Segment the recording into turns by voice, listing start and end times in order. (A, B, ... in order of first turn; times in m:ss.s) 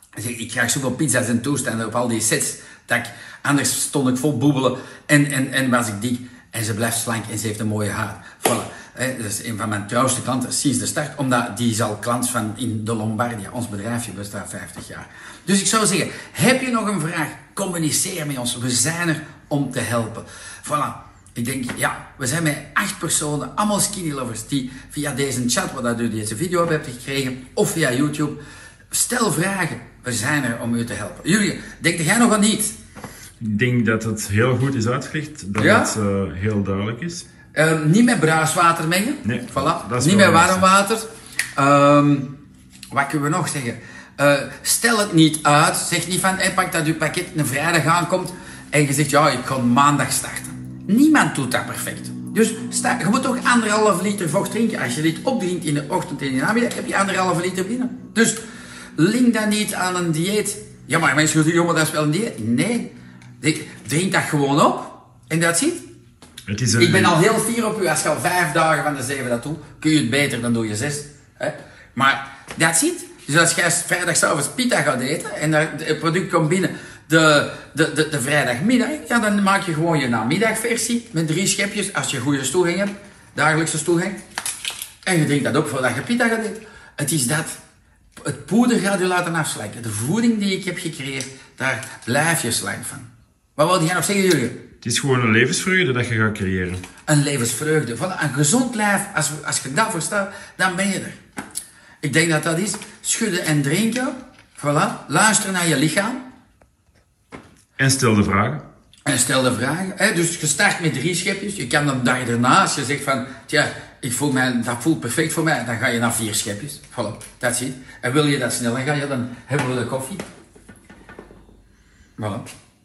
0:00.2-0:28.4 A
0:28.9-0:32.8 A
0:33.4-0:37.2 B
0:35.6-0:35.9 A
0:37.5-0:42.3 A
0:39.2-0:40.6 B
0:42.9-0:58.4 A
0:59.0-1:05.8 A
1:06.5-1:07.1 B
1:06.8-1:24.2 A
1:25.0-1:27.6 A
1:28.2-1:34.6 A
1:34.8-1:36.8 B
1:37.1-1:41.2 A
1:42.0-1:46.2 A
1:47.8-1:48.6 B
1:49.0-2:00.2 A
2:02.2-2:02.4 A